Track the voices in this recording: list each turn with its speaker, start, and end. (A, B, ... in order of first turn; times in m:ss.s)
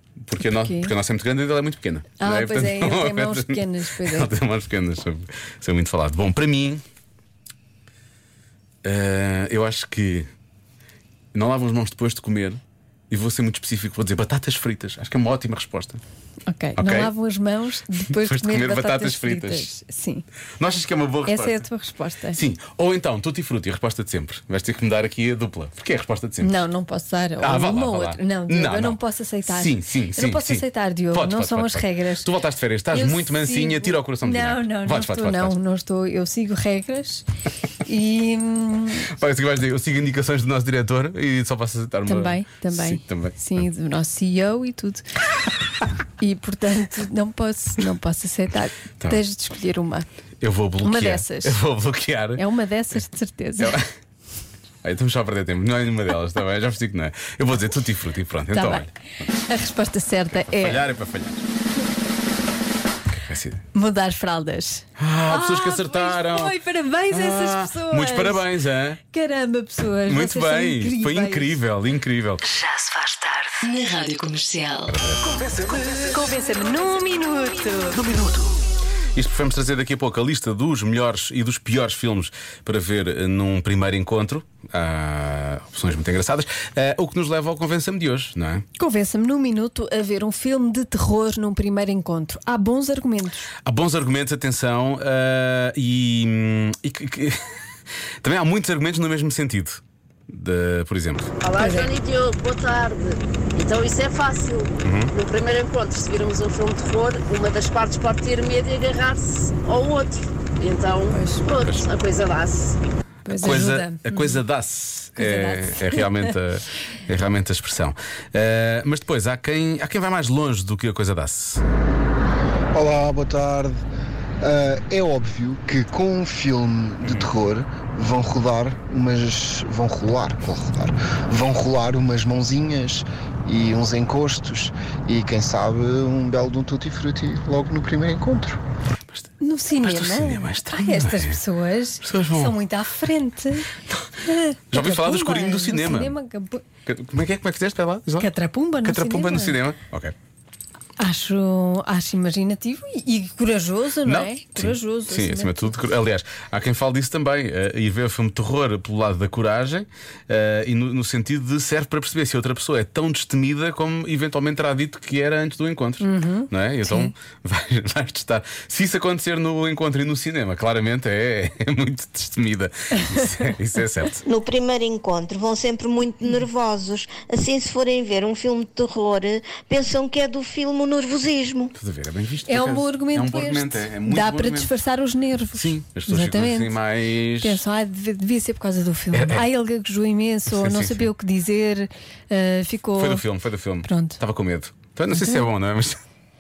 0:00.2-0:06.8 A
0:00.4-0:00.9 B
0:02.2-0:04.3 B
0:08.8-0:10.3 A
0:11.3-0:16.0 A
0:16.5-0:20.2 B
0:16.8-0:17.1 A
0:18.1-0:19.7 A
0:20.6-0:21.6 A
0:21.3-0:22.4 B
0:22.3-0:26.6 A
0:26.4-0:32.3 B
0:27.4-0:35.6 A
0:32.9-0:37.2 B
0:37.8-0:39.1 B
0:39.1-0:43.6 A
0:42.0-0:45.0 B
0:46.2-0:50.0 B
0:50.4-0:52.4 A
0:50.8-0:51.6 B
0:52.4-0:53.8 B
0:53.6-0:53.9 A
0:54.8-0:58.9 A
0:58.5-1:00.8 B
1:00.5-1:01.4 A
1:03.2-1:03.6 A
1:03.7-1:08.5 B
1:05.0-1:06.6 A
1:07.1-1:09.0 A
1:09.1-1:11.6 B
1:10.0-1:12.4 A
1:12.4-1:15.0 C
1:14.9-1:16.2 A
1:16.0-1:18.0 B
1:17.9-1:18.6 A
1:19.1-1:28.6 A
1:28.8-1:33.5 B
1:33.6-1:37.5 A
1:38.2-1:41.3 A
1:41.4-1:52.8 D
1:41.5-1:41.9 B
1:44.8-1:45.1 A
1:51.1-1:51.5 B
1:53.2-1:54.4 B
1:53.3-2:01.6 A
1:55.2-1:56.3 B
2:02.7-2:03.8 E
2:04.4-2:18.6 E
2:07.0-2:07.3 A
2:18.9-2:21.4 A
2:19.4-2:23.7 B
2:22.0-2:22.6 A
2:24.2-2:26.6 B
2:24.7-2:26.2 A
2:26.8-2:28.3 A
2:28.2-2:29.6 B
2:28.8-2:30.1 A
2:31.0-2:35.8 B
2:34.0-2:54.2 A
2:46.0-2:47.1 B
2:54.2-3:01.7 F
3:01.7-3:04.7 A
3:02.5-3:06.7 B
3:05.5-3:07.6 A
3:07.4-3:13.2 B
3:09.1-3:09.4 A
3:10.5-3:11.1 A
3:13.0-3:16.0 A
3:13.8-3:14.2 B
3:15.1-3:15.4 B